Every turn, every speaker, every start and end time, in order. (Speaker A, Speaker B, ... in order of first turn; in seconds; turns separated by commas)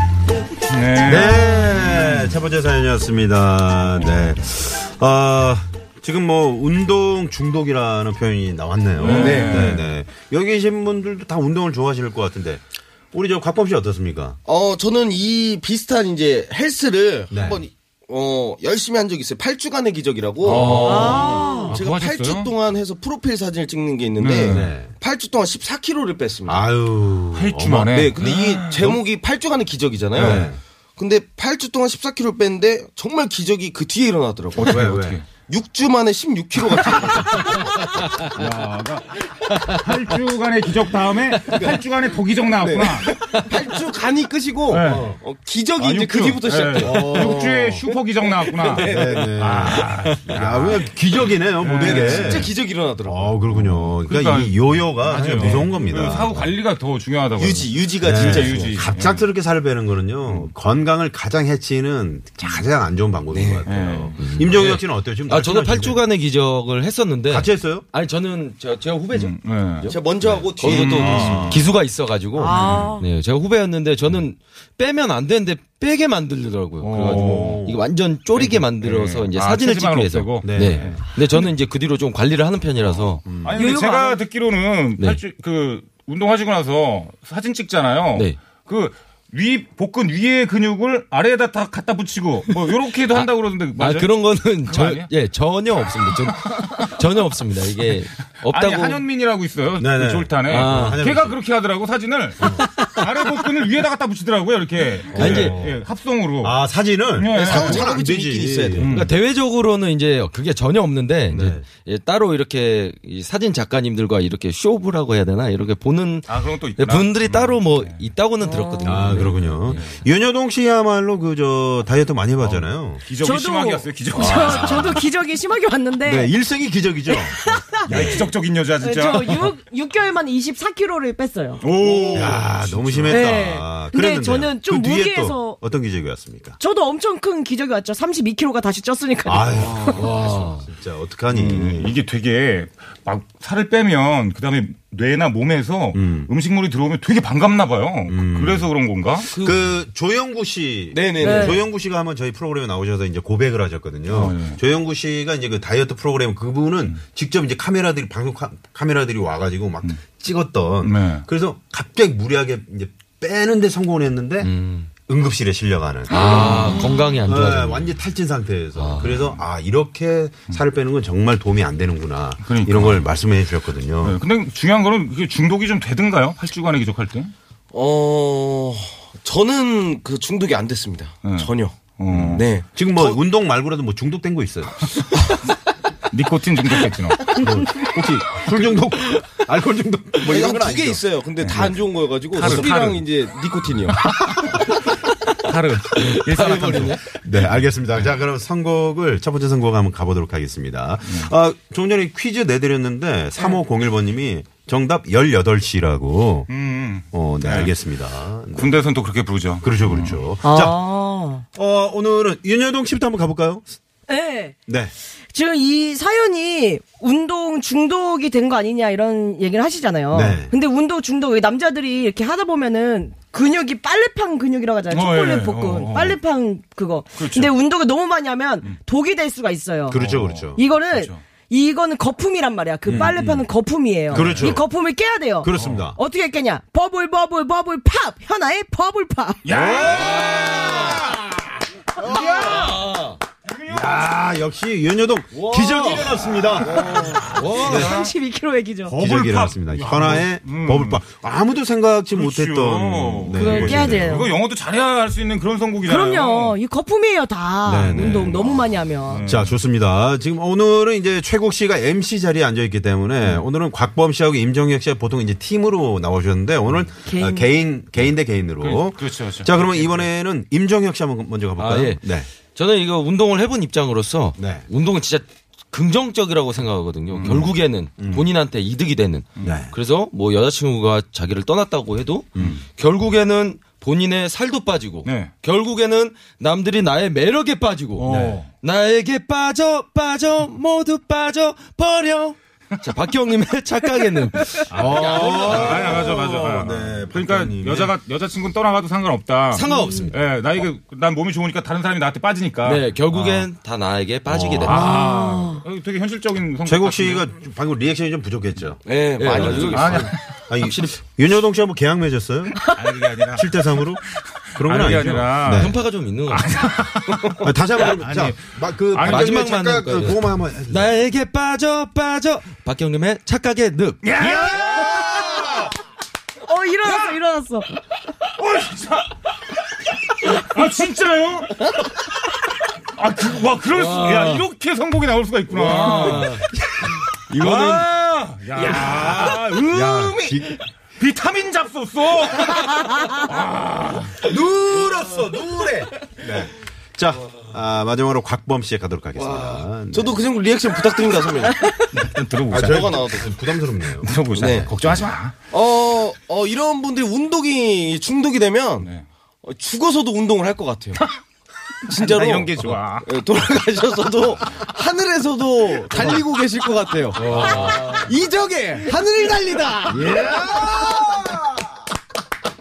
Speaker A: 0.7-2.4, Speaker B: 1.0-14.4, Speaker A: 9.0-9.9, Speaker C: 9.1-9.7, Speaker C: 14.5-26.6, Speaker B: 17.3-17.6, Speaker A: 20.4-22.5, Speaker B: 20.5-21.1, Speaker D: 20.5-21.2, Speaker E: 20.9-21.7, Speaker A: 24.2-24.7, Speaker B: 24.4-24.9, Speaker B: 26.5-27.9, Speaker A: 27.3-29.0, Speaker C: 27.9-37.8, Speaker A: 30.1-30.5, Speaker B: 30.1-30.6, Speaker A: 34.6-35.2, Speaker B: 34.7-35.2, Speaker A: 36.8-37.5, Speaker A: 38.1-43.2, Speaker C: 41.5-41.8, Speaker C: 42.6-49.7, Speaker A: 44.7-45.2, Speaker B: 44.8-45.2, Speaker A: 45.8-50.9, Speaker B: 46.8-47.6, Speaker B: 48.8-52.5, Speaker A: 51.6-52.5, Speaker C: 51.8-53.4, Speaker B: 53.1-56.5, Speaker A: 53.6-59.2, Speaker C: 55.2-55.5, Speaker C: 57.4-58.9, Speaker B: 58.0-66.0, Speaker C: 63.3-63.7, Speaker A: 63.7-64.2, Speaker D: 64.2-83.2, Speaker B: 67.3-67.9, Speaker A: 69.1-69.9, Speaker C: 69.9-71.6, Speaker B: 70.2-71.7, Speaker A: 70.6-71.6, Speaker E: 72.4-73.1, Speaker A: 72.5-72.9, Speaker A: 76.8-77.6, Speaker B: 77.0-77.8, Speaker A: 78.3-81.0, Speaker B: 80.4-81.0, Speaker B: 83.2-83.6, Speaker A: 83.4-95.1, Speaker E: 83.6-84.2, Speaker D: 93.2-99.0, Speaker A: 96.1-96.9, Speaker A: 98.5-106.6, Speaker B: 99.8-101.4, Speaker D: 100.5-101.0, Speaker D: 102.5-103.0, Speaker B: 105.1-105.8, Speaker D: 105.2-105.6, Speaker B: 106.4-108.9, Speaker A: 107.2-107.9, Speaker C: 107.3-108.9, Speaker A: 108.8-109.1, Speaker D: 108.8-119.8, Speaker B: 111.3-111.6, Speaker A: 116.3-118.0, Speaker E: 118.4-119.1, Speaker B: 118.8-123.0, Speaker A: 119.2-120.0, Speaker A: 122.4-125.0, Speaker E: 123.2-126.3, Speaker B: 124.2-125.0, Speaker B: 126.0-128.2, Speaker E: 127.1-128.2, Speaker A: 127.8-129.5, Speaker E: 128.8-131.6, Speaker A: 131.6-133.3, Speaker C: 131.8-132.3, Speaker B: 132.1-136.6, Speaker E: 133.1-135.6, Speaker E: 136.6-139.9, Speaker B: 139.3-141.9, Speaker D: 139.9-140.7, Speaker A: 141.3-149.3, Speaker B: 145.9-146.3, Speaker B: 148.1-148.7, Speaker B: 149.3-164.5, Speaker C: 150.9-151.6, Speaker E: 151.2-151.6, Speaker A: 154.1-154.6, Speaker A: 160.8-161.2, Speaker D: 164.4-164.9, Speaker B: 165.1-166.7, Speaker D: 166.1-167.9, Speaker E: 166.2-167.0, Speaker A: 166.2-166.8, Speaker B: 167.2-174.2, Speaker D: 168.8-169.3, Speaker A: 172.4-173.1, Speaker A: 174.0-177.3, Speaker C: 177.7-183.1, Speaker A: 181.2-182.5, Speaker B: 182.1-184.9, Speaker A: 186.1-187.4, Speaker B: 187.3-191.0, Speaker C: 190.2-194.2, Speaker A: 191.4-191.7, Speaker A: 192.3-193.0, Speaker B: 192.4-192.7, Speaker A: 194.0-194.8, Speaker A: 195.3-197.0, Speaker D: 196.0-197.0, Speaker B: 197.2-206.5, Speaker A: 206.5-207.7, Speaker B: 207.1-208.7, Speaker A: 208.5-210.2, Speaker B: 209.6-210.8, Speaker E: 210.4-211.4, Speaker B: 211.6-213.7, Speaker E: 214.1-214.6, Speaker B: 214.7-214.9, Speaker E: 215.3-230.0, Speaker B: 220.1-220.5, Speaker A: 224.9-226.2, Speaker A: 227.2-227.5, Speaker B: 229.9-230.6, Speaker A: 229.9-231.2, Speaker E: 230.6-239.5, Speaker B: 232.9-233.3, Speaker A: 232.9-233.4, Speaker A: 234.1-234.6, Speaker B: 234.1-234.7, Speaker B: 235.4-236.0, Speaker A: 235.6-235.8, Speaker A: 239.4-242.8, Speaker B: 239.5-241.2, Speaker D: 239.6-241.0, Speaker B: 242.0-242.8, Speaker D: 242.1-243.2, Speaker A: 243.5-244.1, Speaker B: 243.7-246.9, Speaker D: 245.3-246.1, Speaker A: 246.6-248.1, Speaker D: 246.7-248.0, Speaker E: 246.8-249.0, Speaker B: 247.6-248.0, Speaker B: 248.9-254.3, Speaker A: 248.9-251.0, Speaker A: 252.1-256.6, Speaker E: 253.3-254.3, Speaker E: 255.9-259.2, Speaker B: 257.6-258.6, Speaker A: 257.9-259.6, Speaker B: 259.2-272.3, Speaker E: 267.1-267.5, Speaker A: 268.6-270.1, Speaker D: 271.6-288.1, Speaker B: 274.4-274.7, Speaker A: 277.1-277.5, Speaker B: 278.0-278.3, Speaker B: 279.4-279.7, Speaker B: 282.4-282.6, Speaker A: 285.1-285.3, Speaker A: 288.0-288.5, Speaker B: 288.1-288.4, Speaker D: 288.6-296.1, Speaker B: 294.7-297.9, Speaker A: 294.7-303.5, Speaker D: 299.5-300.2, Speaker E: 299.7-300.1, Speaker D: 302.6-304.9, Speaker B: 304.3-304.8, Speaker A: 304.6-307.3, Speaker E: 304.7-305.6, Speaker B: 306.6-308.8, Speaker C: 308.9-310.1, Speaker D: 309.2-310.9, Speaker A: 309.4-310.2, Speaker B: 310.5-312.8, Speaker A: 312.7-313.5, Speaker B: 313.3-314.0, Speaker A: 314.5-319.4, Speaker B: 314.6-315.8, Speaker D: 315.4-316.6, Speaker B: 317.4-320.9, Speaker D: 319.0-324.2, Speaker A: 324.0-325.7, Speaker E: 324.6-325.5, Speaker E: 326.4-327.7, Speaker A: 328.4-329.1, Speaker A: 330.1-331.7, Speaker A: 332.9-336.4, Speaker D: 333.7-334.4, Speaker D: 335.5-336.4, Speaker D: 337.3-337.9, Speaker A: 337.4-340.3, Speaker B: 338.7-340.6, Speaker C: 338.8-339.1, Speaker C: 339.8-340.4, Speaker A: 341.0-344.2, Speaker B: 344.2-350.2, Speaker C: 349.2-351.7, Speaker A: 351.9-353.0, Speaker B: 352.5-354.7, Speaker C: 352.6-353.3, Speaker A: 354.0-355.4, Speaker C: 354.4-354.7, Speaker C: 355.5-358.9, Speaker A: 358.8-359.1, Speaker C: 359.4-361.0, Speaker A: 361.9-363.1, Speaker C: 361.9-371.4, Speaker D: 367.3-367.9, Speaker B: 367.4-367.7, Speaker B: 370.0-371.3